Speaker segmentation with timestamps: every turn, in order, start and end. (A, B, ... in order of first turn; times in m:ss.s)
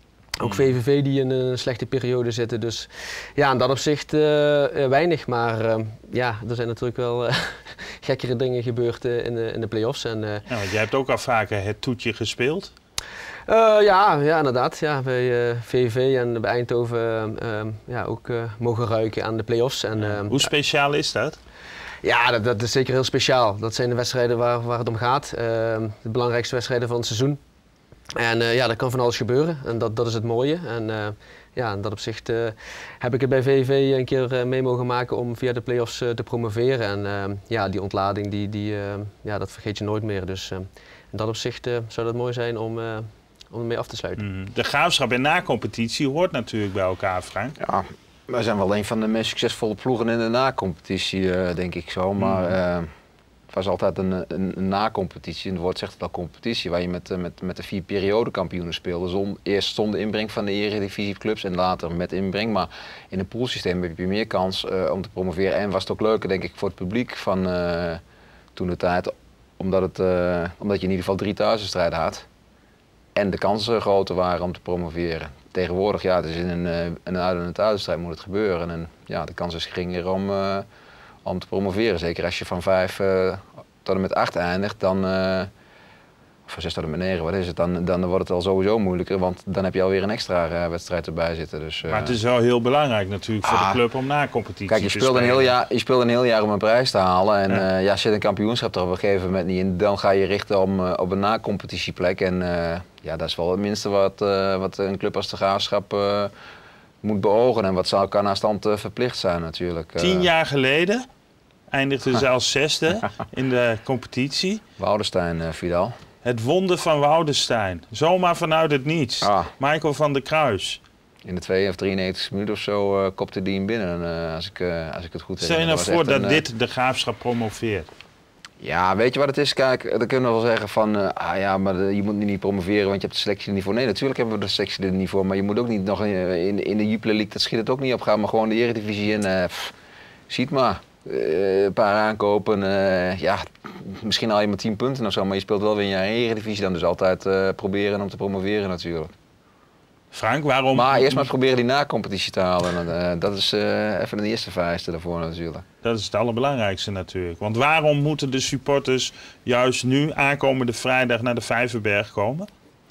0:00.4-0:10.4 A
0:00.4-0:00.7 B
0:10.5-0:12.7 B
0:13.5-0:20.5 A
0:20.0-0:21.4 B
0:22.0-0:27.4 A
0:28.2-0:44.2 A
0:44.2-0:47.6 B
0:47.6-0:52.9 C
0:52.2-0:52.5 B
0:53.5-1:08.0 C
1:08.6-1:12.2 C
1:13.1-1:20.6 C
1:21.2-1:25.5 C
1:26.5-1:32.2 C
1:31.9-1:35.5 B
1:33.4-1:33.8 C
1:34.7-1:46.3 C
1:47.0-1:50.3 C
1:50.0-1:51.0 B
1:51.7-1:54.6 B
1:54.8-1:56.0 C
1:56.2-2:00.8 B
1:59.2-1:59.5 C
2:01.2-2:06.4 C
2:05.4-2:07.9 B
2:08.6-2:19.7 C
2:20.3-2:29.1 C
2:30.1-2:31.3 B
2:30.7-2:35.6 C
2:35.8-2:42.5 B